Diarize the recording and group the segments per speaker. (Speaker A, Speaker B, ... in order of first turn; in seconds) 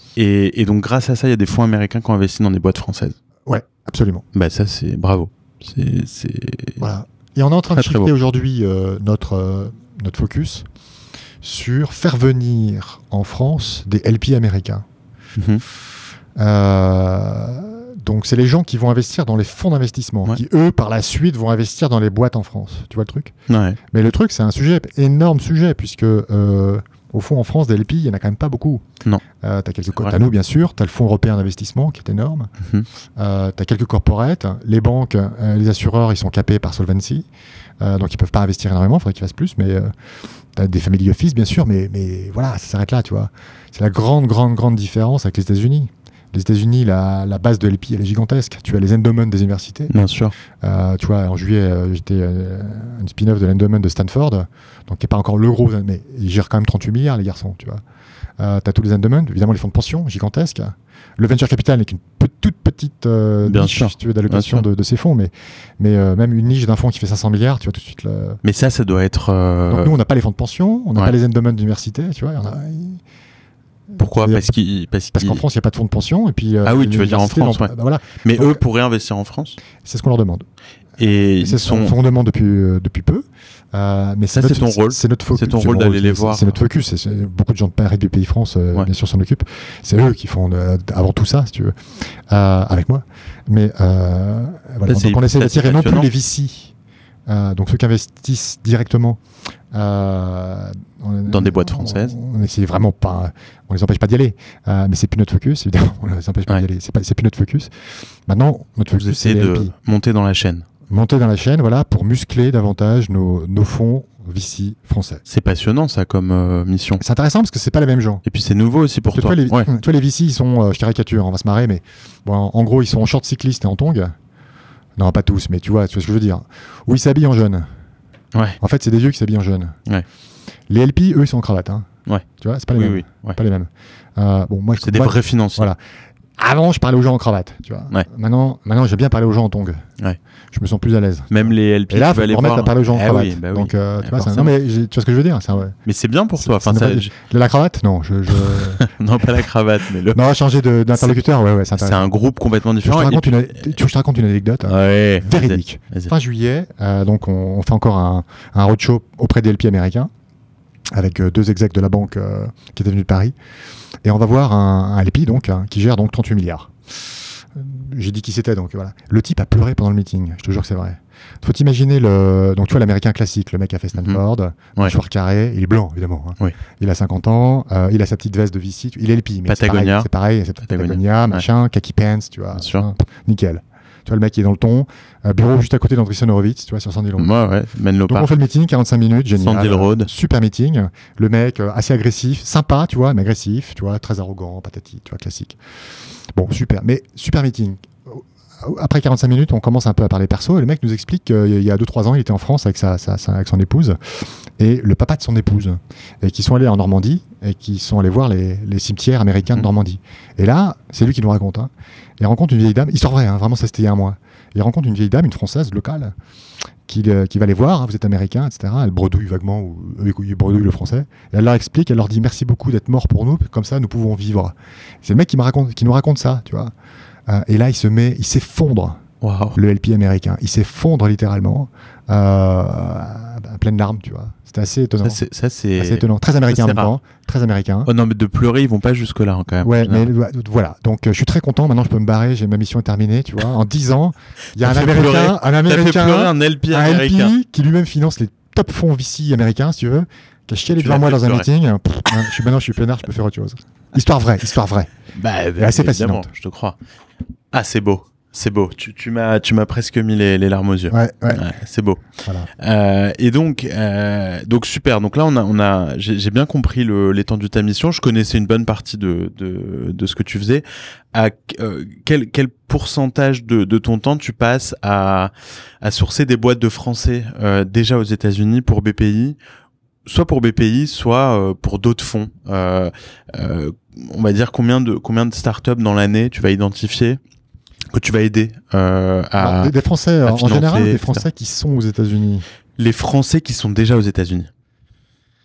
Speaker A: 0.2-3.2, 4.3-6.8, 7.7-8.1, 15.4-15.6, 23.5-23.8, 49.9-50.3, 63.5-64.7, 68.4-70.0, 74.0-75.4, 76.6-77.7, 78.2-79.6, 81.0-82.0, 84.3-86.6, 94.9-96.1, 101.3-102.1, 109.0-110.7, 115.3-117.0, 118.2-119.7, 128.3-128.6, 132.1-133.4, 134.8-135.7, 141.3-144.5, 145.9-147.1, 148.3-150.2, 150.9-151.2, 151.8-153.6, 154.7-156.1, 173.9-174.2, 179.5-180.1, 180.7-181.4, 182.5-182.9, 187.2-188.3, 189.4-190.1, 229.2-229.6, 235.0-236.9, 237.9-240.1, 244.6-247.3, 250.8-251.5, 255.2-256.8, 257.5-262.0, 262.6-279.4, 280.1-287.2, 287.9-289.7, 290.2-291.2, 292.8-294.5
Speaker B: 3.5-4.2, 6.8-10.7, 11.4-14.8, 16.4-23.3, 23.9-28.8, 29.4-32.5, 33.2-37.3, 37.8-39.9, 40.5-49.9, 50.6-57.8, 58.4-68.4, 69.7-73.0, 74.0-74.5, 75.2-78.6, 79.8-80.5, 81.1-91.8, 92.3-96.7, 97.3-99.2, 99.7-107.7, 108.3-109.7, 110.9-115.2, 117.0-118.2, 119.1-124.1, 125.0-127.7, 128.6-129.8, 130.7-131.9, 132.4-135.8, 136.4-139.8, 140.5-145.8, 146.4-148.9, 150.1-152.1, 152.8-160.1, 160.9-163.3, 164.1-187.3, 188.1-195.6, 196.3-216.1, 216.9-226.7, 227.3-229.0, 229.6-235.2, 235.8-237.9, 239.6-254.9, 255.6-256.3, 260.9-261.4, 262.2-262.5, 289.4-292.5